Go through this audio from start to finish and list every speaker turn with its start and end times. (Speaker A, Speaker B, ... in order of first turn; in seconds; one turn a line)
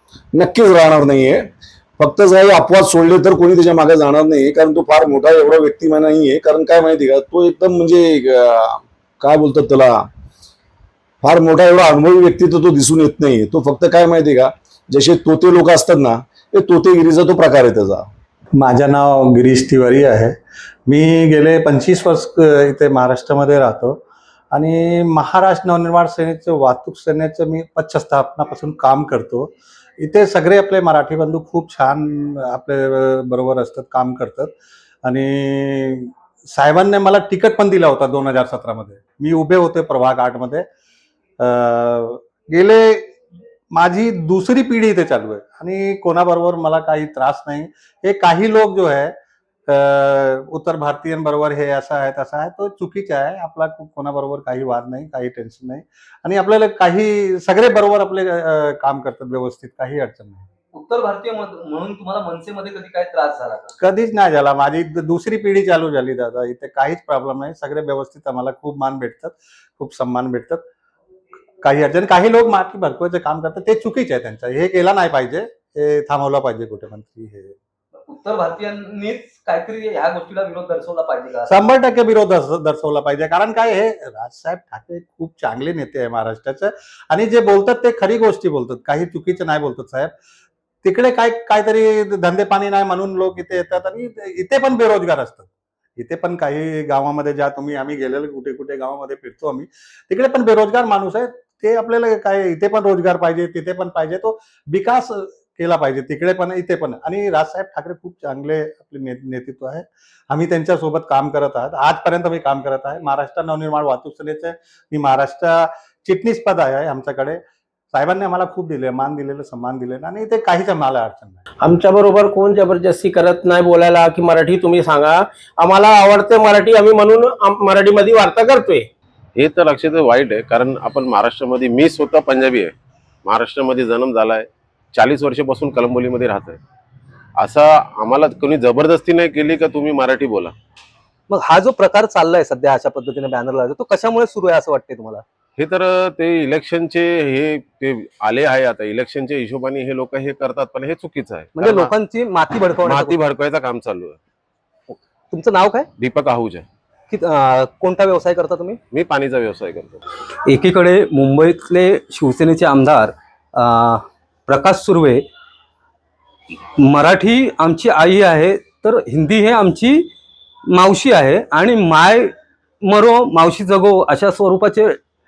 Speaker A: 0.3-10.1
Speaker A: 11.2-18.1
Speaker B: 18.6-34.5
Speaker B: 35.0-40.7
Speaker B: 41.4-43.1
Speaker B: 43.7-49.1
Speaker B: 49.7-60.5
Speaker C: 60.7-63.7
Speaker B: 63.8-70.6
Speaker B: 71.6-77.5
Speaker C: 78.1-81.5
Speaker B: 81.5-90.1
Speaker B: 90.8-117.4
Speaker B: 117.9-121.4
Speaker D: 121.6-128.8
Speaker E: 129.3-132.7
Speaker E: 133.2-136.6
Speaker E: 137.4-140.5
Speaker C: 141.3-145.2
Speaker E: 145.6-151.9
Speaker C: 151.6-153.2
Speaker E: 152.8-154.2
Speaker C: 155.3-155.9
Speaker E: 156.0-156.7
Speaker C: 157.1-158.8
Speaker E: 158.9-160.0
Speaker C: 160.4-165.2
Speaker C: 166.8-170.1
Speaker C: 170.7-172.3
Speaker C: 172.8-175.0